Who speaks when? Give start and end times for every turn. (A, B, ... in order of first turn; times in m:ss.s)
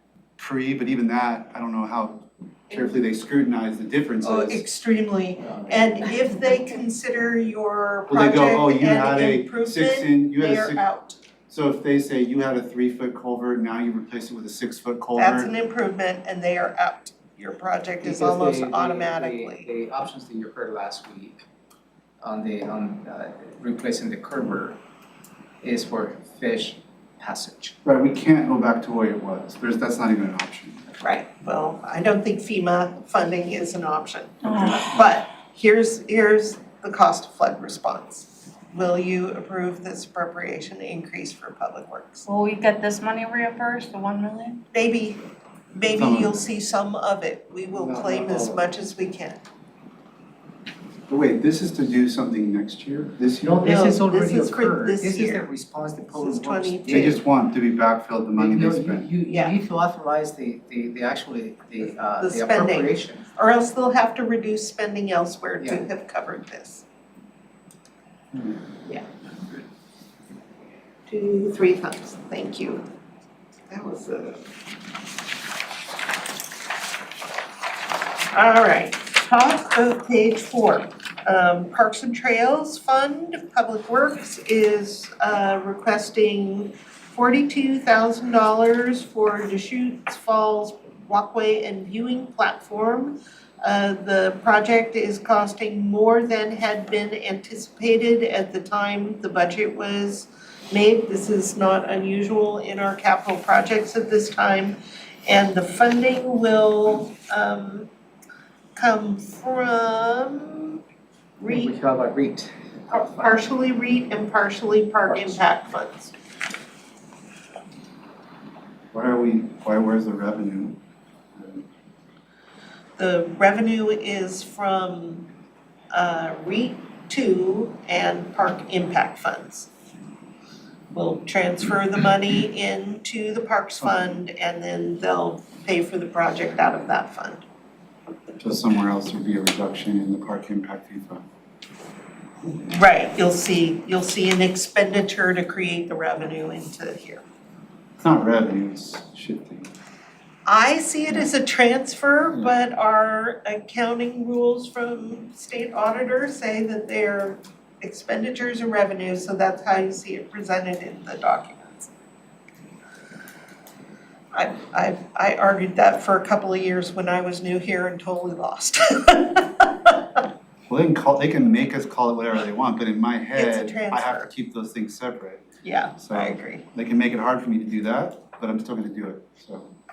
0:00.4-0:04.6 A
0:04.2-0:11.2 B
0:05.4-0:06.1 C
0:08.1-0:10.8 A
0:11.5-0:15.5 A
0:15.2-0:19.7 B
0:18.0-0:21.4 C
0:22.2-0:24.8 C
0:25.6-0:27.7 C
0:27.8-0:30.8 A
0:31.0-0:42.2 B
0:34.4-0:34.9 D
0:34.4-0:35.0 A
0:42.2-0:44.6 D
0:44.7-0:45.2 B
0:45.7-0:49.4 B
0:45.8-0:46.4 A
0:47.7-0:48.7 C
0:51.1-0:53.8 A
0:53.4-0:57.2 C
0:53.6-0:55.5 B
0:56.1-0:57.2 B
0:56.9-0:59.1 A
0:58.3-1:03.3 C
0:59.3-0:59.5 B
1:01.8-1:06.8 B
1:05.6-1:05.8 C
1:11.1-1:12.8 B
1:13.7-1:14.4 B
1:18.3-1:47.9 B
1:48.8-1:50.8 B
1:51.4-1:51.7 B
1:51.5-1:53.4 C
1:52.9-1:56.1 B
1:55.1-1:55.4 C
1:58.9-2:00.8 A
2:01.4-2:01.6 A
2:03.0-2:05.2 B
2:05.9-2:09.7 B
2:10.9-2:17.4 B
2:13.8-2:14.2 A
2:18.4-2:21.2 A
2:22.7-2:27.2 B
2:28.0-2:29.7 A
2:30.4-2:41.9 B
2:44.3-2:49.9 B
2:50.7-2:55.4 A
2:53.4-2:54.3 B
2:55.6-2:56.6 B
2:56.0-2:59.7 A